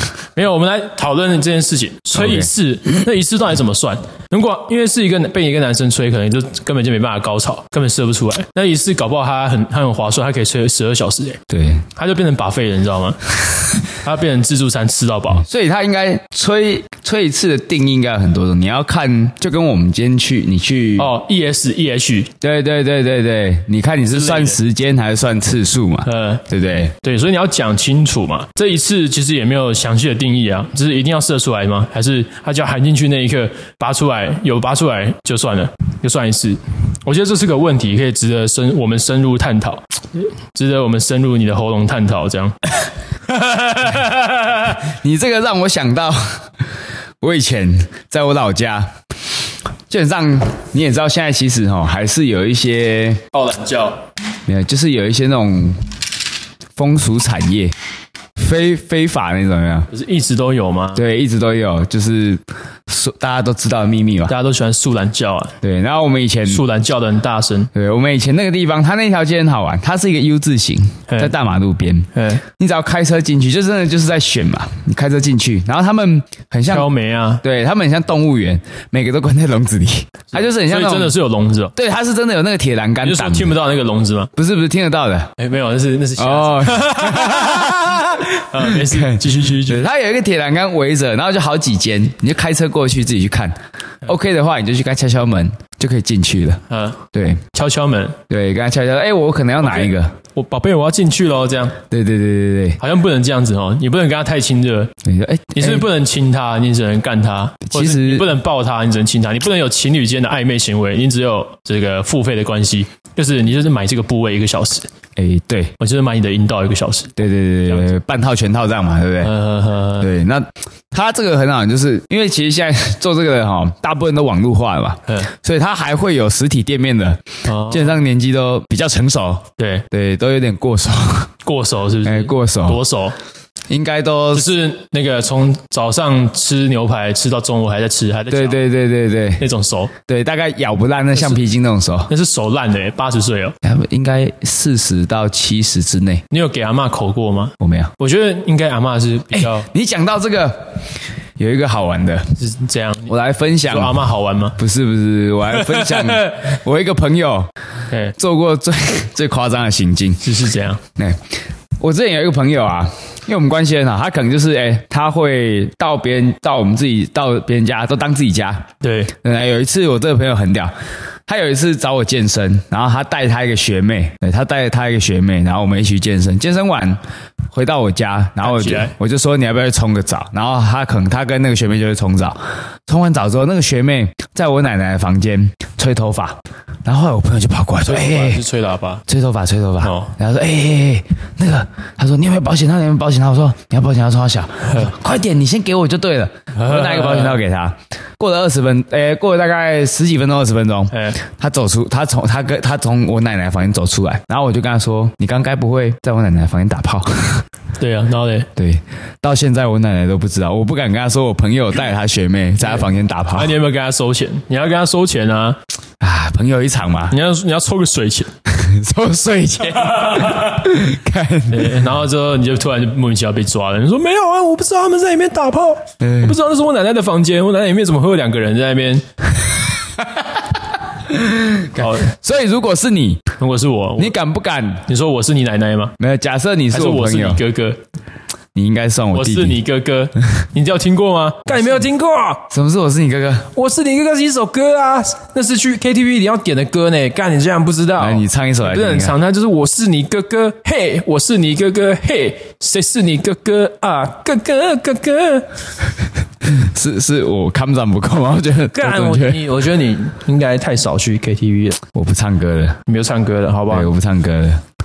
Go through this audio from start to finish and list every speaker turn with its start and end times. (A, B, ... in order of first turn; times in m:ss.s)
0:00.3-0:11.4 A
0:02.1-0:02.5 B
0:11.5-0:11.8 B
0:12.0-0:13.3 A
0:13.8-0:15.4 A
0:15.4-0:21.1 B
0:21.0-0:22.3 A
0:22.4-0:27.0 B
0:24.1-0:24.6 A
0:26.0-0:26.5 A
0:27.0-0:39.8 A
0:40.5-0:42.6 A
0:43.3-0:44.8 A
0:44.8-0:46.5 B
0:47.2-0:48.9 B
0:49.9-0:53.2 B
0:53.3-0:54.0 A
0:54.5-0:55.9 B
0:56.8-0:57.7 B
0:58.4-0:59.9 B
0:59.9-1:01.0 A
1:01.0-1:04.3 B
1:04.3-1:05.6 A
1:05.6-1:06.6 B
1:06.5-1:07.7 A
1:07.7-1:16.9 B
1:11.1-1:11.3 A
1:12.2-1:12.4 A
1:16.7-1:17.4 A
1:17.4-1:21.1 B
1:20.3-1:21.7 A
1:21.8-1:23.6 B
1:23.0-1:24.3 A
1:24.4-1:25.3 B
1:25.4-1:29.8 A
1:26.2-1:37.4 B
1:36.7-1:37.0 A
1:37.5-1:38.2 A
1:38.3-1:40.1 B
1:39.6-1:41.8 A
1:41.9-1:42.8 B
1:42.8-1:44.9 A
1:45.0-1:45.9 B
1:45.6-1:54.9 A
1:47.7-1:48.3 B
1:55.2-1:55.7 B
1:55.8-1:57.9 A
1:57.2-1:59.3 B
1:59.2-2:00.1 A
2:00.0-2:11.3 B
2:07.5-2:08.0 A
2:09.6-2:09.8 A
2:11.4-2:13.2 A
2:12.0-2:12.8 B
2:13.7-2:14.5 B
2:14.3-2:18.6 A
2:18.3-2:19.4 B
2:19.4-2:19.9 A
2:20.0-2:22.1 B
2:22.1-2:23.6 A
2:23.6-2:26.2 B
2:26.3-2:29.7 A
2:27.6-2:27.9 B
2:29.4-2:32.3 B
2:32.4-2:33.1 A
2:33.1-2:34.0 B
2:33.7-2:34.6 A
2:34.6-2:37.5 B
2:35.5-2:36.4 A
2:37.9-2:38.2 A
2:38.2-2:40.2 B
2:40.2-2:40.8 A
2:41.0-2:41.3 B
2:41.8-2:50.7 B
2:48.8-2:49.1 A
2:51.3-2:57.0 B
2:57.5-3:08.4 B
2:58.4-2:58.9 A
3:07.8-3:09.0 A
3:09.1-3:27.4 B
3:09.8-3:10.1 A
3:16.5-3:17.4 A
3:20.9-3:21.2 A
3:27.8-3:28.5 A
3:28.6-3:33.5 B
3:32.6-3:35.6 A
3:36.0-3:37.2 B
3:37.1-3:38.3 A
3:38.5-3:41.8 B
3:39.8-3:40.6 A
3:41.5-3:49.0 A
3:46.0-3:46.4 B
3:50.0-3:53.2 B
3:51.8-3:52.1 A
3:53.4-3:54.2 A
3:54.0-3:54.9 B
3:54.9-3:56.0 A
3:56.0-3:57.4 B
3:56.7-3:57.8 A
3:58.6-3:59.6 B
3:59.1-4:02.5 A
4:02.5-4:03.5 B
4:03.6-4:15.5 A
4:08.0-4:09.2 B
4:16.4-4:19.4 B
4:18.7-4:21.8 A
4:21.9-4:22.8 B
4:22.9-4:23.9 A
4:23.7-4:24.6 B